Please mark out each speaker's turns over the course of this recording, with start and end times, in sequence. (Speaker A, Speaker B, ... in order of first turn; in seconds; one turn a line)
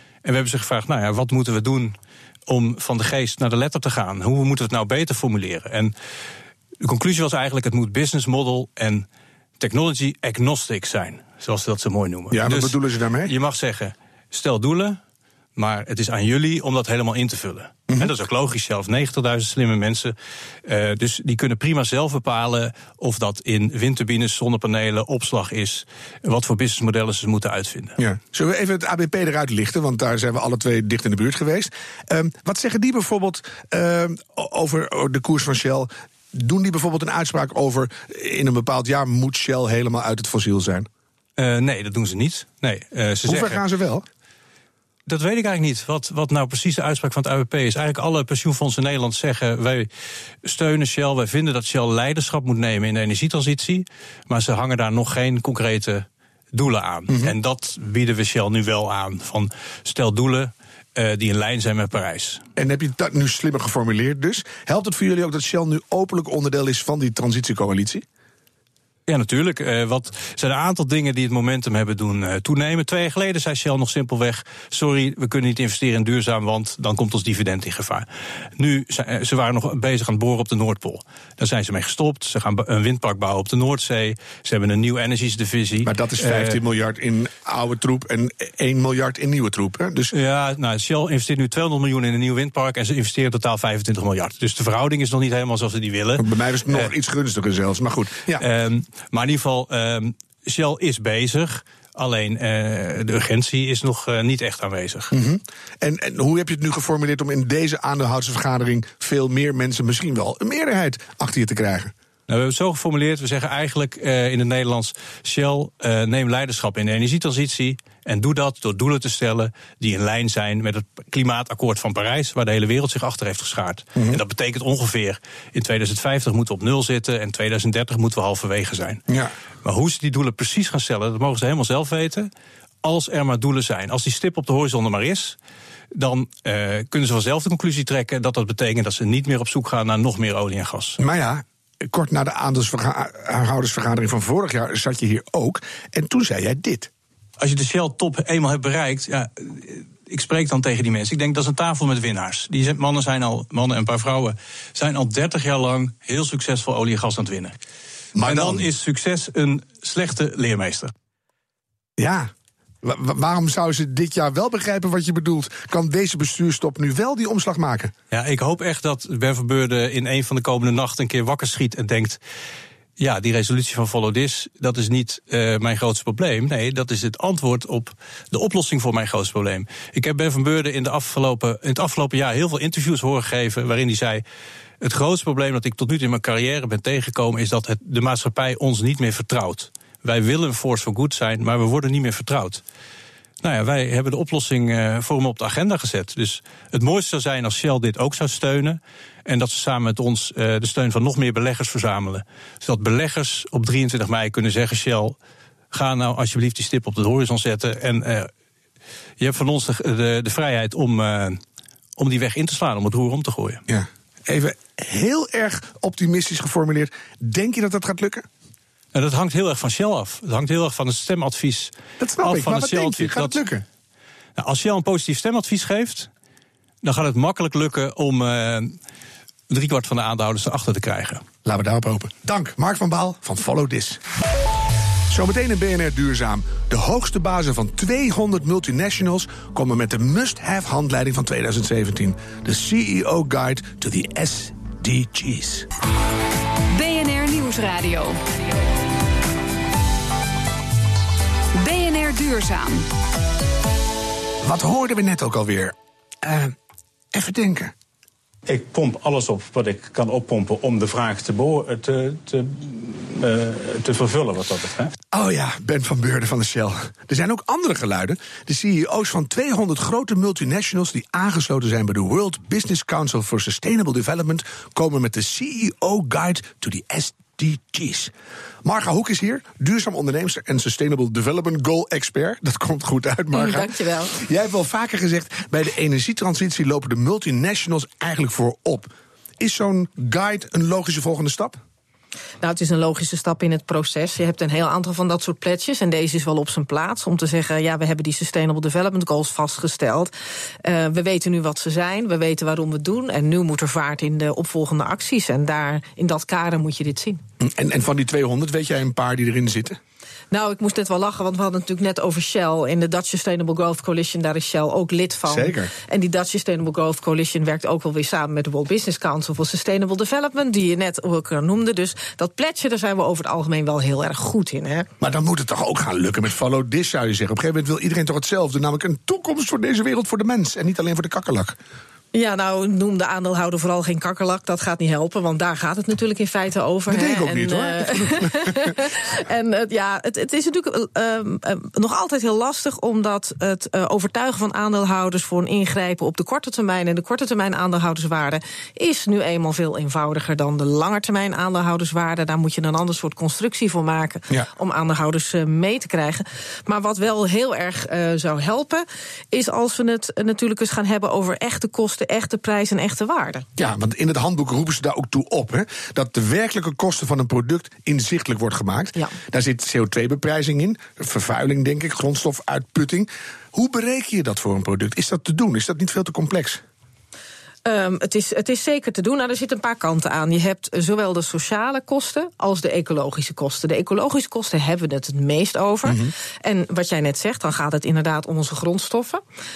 Speaker A: 0.2-5.9
Speaker A: 6.8-9.1
Speaker A: 9.6-15.0
Speaker B: 12.3-13.3
Speaker A: 15.6-20.1
Speaker A: 20.6-28.0
Speaker B: 28.0-40.9
Speaker A: 41.4-43.6
Speaker B: 43.2-44.0
Speaker A: 45.1-49.9
Speaker A: 50.4-62.4
Speaker B: 57.1-57.4
Speaker B: 62.6-68.0
Speaker A: 69.1-78.1
Speaker A: 78.6-86.6
Speaker B: 85.8-90.1
Speaker A: 90.1-96.9
Speaker B: 96.2-98.4
Speaker A: 98.4-105.1
Speaker B: 105.1-111.9
Speaker A: 112.3-129.0
Speaker A: 129.6-132.3
Speaker A: 132.8-135.4
Speaker A: 135.9-141.0
Speaker B: 141.0-146.9
Speaker A: 147.4-157.6
Speaker B: 158.2-158.7
Speaker A: 158.2-160.9
Speaker B: 162.0-162.3
Speaker B: 162.8-167.9
Speaker A: 168.1-172.2
Speaker A: 173.0-184.2
Speaker A: 184.8-192.6
Speaker A: 193.4-205.2
Speaker A: 205.7-208.3
Speaker A: 209.2-211.4
Speaker A: 212.0-213.6
Speaker B: 213.7-218.3
Speaker A: 218.9-223.4
Speaker B: 222.0-223.6
Speaker A: 224.4-226.1
Speaker A: 226.8-228.8
Speaker A: 229.5-231.2
Speaker B: 231.4-234.0
Speaker B: 235.1-245.7
Speaker C: 246.7-248.2
Speaker C: 251.6-252.9
Speaker B: 254.4-256.6
Speaker B: 257.1-257.7
Speaker D: 258.5-264.9
Speaker B: 265.1-278.1
Speaker B: 278.6-291.6
Speaker E: 283.3-284.2
Speaker E: 292.4-300.1
Speaker E: 300.6-307.2
Speaker B: 307.4-309.8
Speaker E: 310.3-324.9
Speaker B: 315.3-315.7
Speaker B: 325.0-331.6
Speaker E: 332.1-363.5
Speaker B: 336.9-338.8
Speaker B: 363.6-376.6
Speaker E: 377.6-389.2
Speaker B: 385.9-386.1